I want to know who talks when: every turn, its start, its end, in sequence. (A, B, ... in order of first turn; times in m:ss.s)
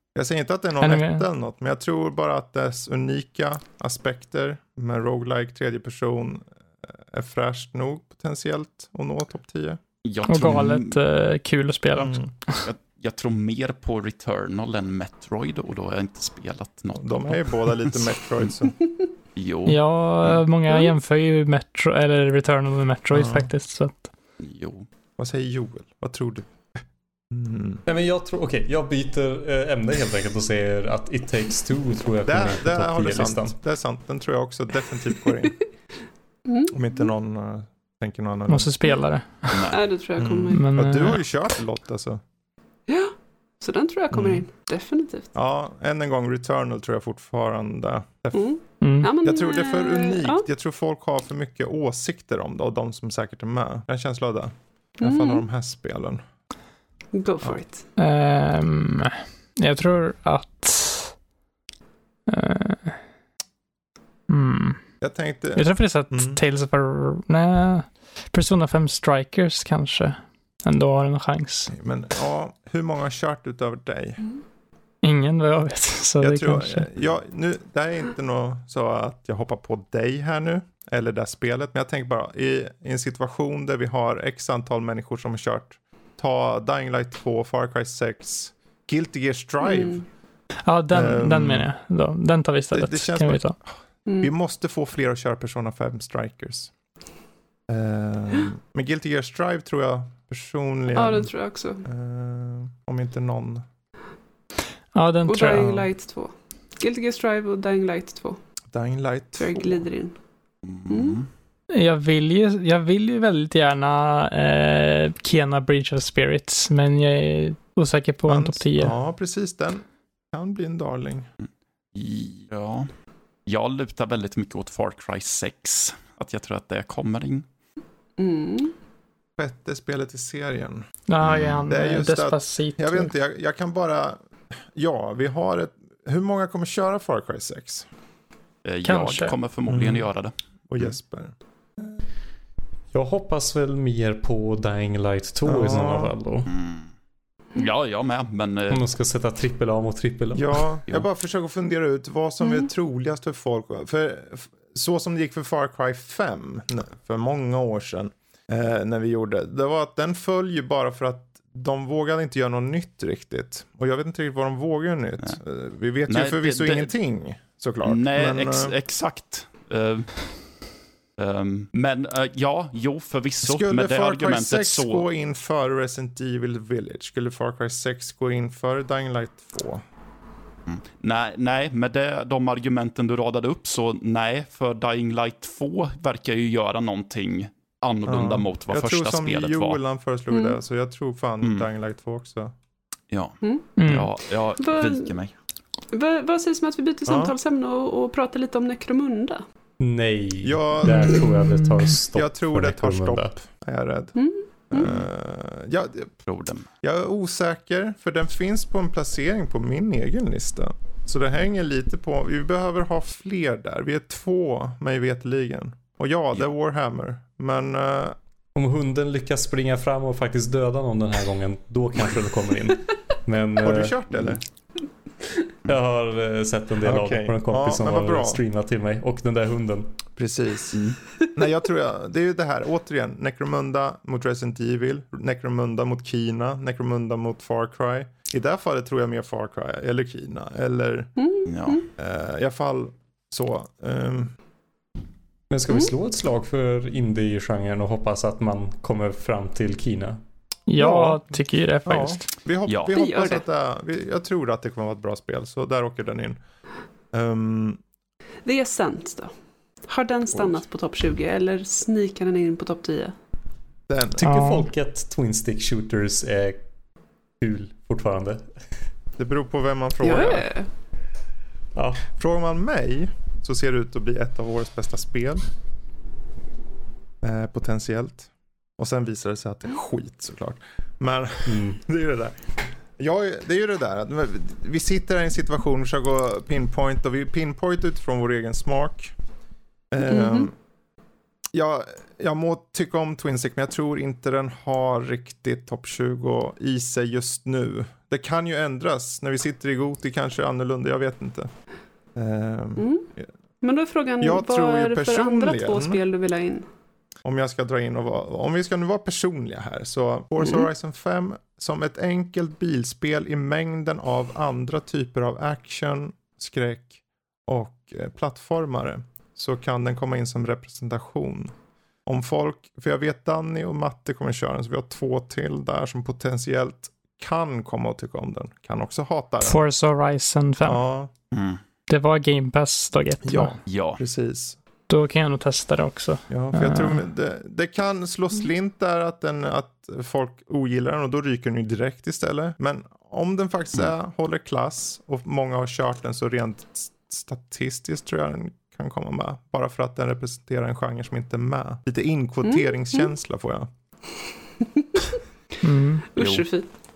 0:00.1-0:09.8 A
0:00.8-0:01.2 B
0:10.0-0:11.0 C
0:10.2-0:12.6 B
0:12.0-0:17.8 C
0:12.0-0:12.3 A
0:16.9-0:18.8 A
0:19.4-0:20.4 C
0:19.7-0:24.1 B
0:23.1-0:23.5 A
0:24.4-0:24.9 C
0:25.2-0:27.8 A
0:27.8-0:33.5 D
0:32.2-0:35.6 A
0:36.4-0:36.8 E
0:36.7-0:38.7 A
0:38.5-0:39.7 B
0:39.5-0:39.8 C
0:39.7-0:40.6 E
0:40.2-0:42.2 A
0:40.5-0:41.2 B
0:42.9-0:45.3 E
0:44.1-0:44.4 A
0:45.3-0:56.2 A
0:48.3-0:50.4 E
0:48.8-0:49.1 B
0:55.0-0:55.4 E
0:57.1-0:57.8 E
0:58.0-1:01.2 B
1:02.3-1:03.0 B
1:04.3-1:04.8 B
1:05.0-1:06.4 A
1:05.5-1:11.7 B
1:11.7-1:14.2 A
1:15.0-1:16.9 B
1:16.2-1:30.0 A
1:29.6-1:30.0 E
1:30.6-1:33.6 B
1:30.9-1:31.7 A
1:32.7-1:36.7 A
1:34.0-1:34.3 E
1:37.7-1:41.3 A
1:40.9-1:41.8 E
1:41.8-1:43.6 A
1:44.9-1:45.7 B
1:45.3-1:48.4 E
1:45.5-1:45.9 A
1:48.7-1:49.8 A
1:49.4-1:50.2 E
1:50.6-1:51.3 C
1:50.9-1:51.2 E
1:51.7-1:58.9 B
1:58.3-2:01.3 A
2:01.9-2:02.9 C
2:03.4-2:07.4 C
2:08.2-2:08.7 E
2:09.4-2:10.9 A
2:11.1-2:13.1 B
2:11.2-2:11.6 C
2:11.7-2:17.9 A
2:18.6-2:20.9 C
2:18.8-2:19.4 B
2:19.7-2:20.1 A
2:20.7-2:21.3 A
2:22.9-2:26.5 D
2:25.4-2:26.1 A
2:26.5-2:26.9 C
2:27.5-2:28.8 C
2:28.7-2:30.6 D
2:30.3-2:48.7 A
2:46.1-2:46.9 C
2:47.8-2:50.2 C
2:51.2-2:55.0 C
2:53.4-2:59.8 A
3:00.7-3:09.8 C
3:08.0-3:12.5 A
3:10.3-3:10.6 E
3:11.4-3:11.7 C
3:13.1-3:15.3 C
3:13.4-3:13.7 E
3:13.8-3:14.1 B
3:14.6-3:15.1 E
3:15.9-3:19.4 E
3:17.0-3:17.3 A
3:19.8-3:23.3 D
3:20.4-3:21.2 A
3:21.4-3:21.8 B
3:22.1-3:24.2 A
3:24.2-3:25.0 E
3:24.7-3:26.1 A
3:24.8-3:25.0 C
3:26.2-3:26.7 C
3:26.8-3:38.2 A
3:38.5-3:43.9 D
3:43.6-3:44.4 A
3:45.6-3:50.0 D
3:46.8-3:48.4 A
3:50.2-3:50.8 A
3:50.7-3:51.0 C
3:51.3-4:01.1 A
4:01.2-4:01.9 E
4:01.4-4:01.8 C
4:02.0-4:04.3 A
4:05.5-4:10.2 D
4:10.7-4:12.2 B
4:10.8-4:16.4 A
4:12.9-4:13.4 E
4:17.1-4:17.8 A
4:18.4-4:19.3 E
4:19.8-4:23.1 E
4:20.3-4:20.6 A
4:23.9-4:24.2 A
4:24.2-4:26.6 D
4:24.2-4:24.7 B
4:27.4-4:28.5 D
4:29.2-4:30.5 A
4:30.0-4:30.7 E
4:31.7-4:32.1 D
4:32.2-4:35.4 A
4:37.2-4:42.4 A
4:41.5-4:41.8 D
4:43.0-4:49.2 A
4:49.9-4:50.5 A
4:50.0-4:50.5 E
4:51.5-5:01.5 A
5:02.1-5:03.3 A
5:02.8-5:03.1 E
5:03.6-5:06.6 E
5:04.2-5:06.0 A
5:07.2-5:21.5 A
5:22.0-5:29.6 A
5:29.4-5:30.8 B
5:30.6-5:31.1 A
5:31.3-5:31.6 C
5:31.9-5:33.6 B
5:33.2-5:34.6 A
5:33.7-5:34.0 C
5:34.9-5:37.0 B
5:36.3-5:53.7 A
5:52.4-5:53.1 E
5:54.6-5:55.2 E
5:55.6-5:56.0 B
5:56.1-5:56.7 E
5:56.2-5:56.4 C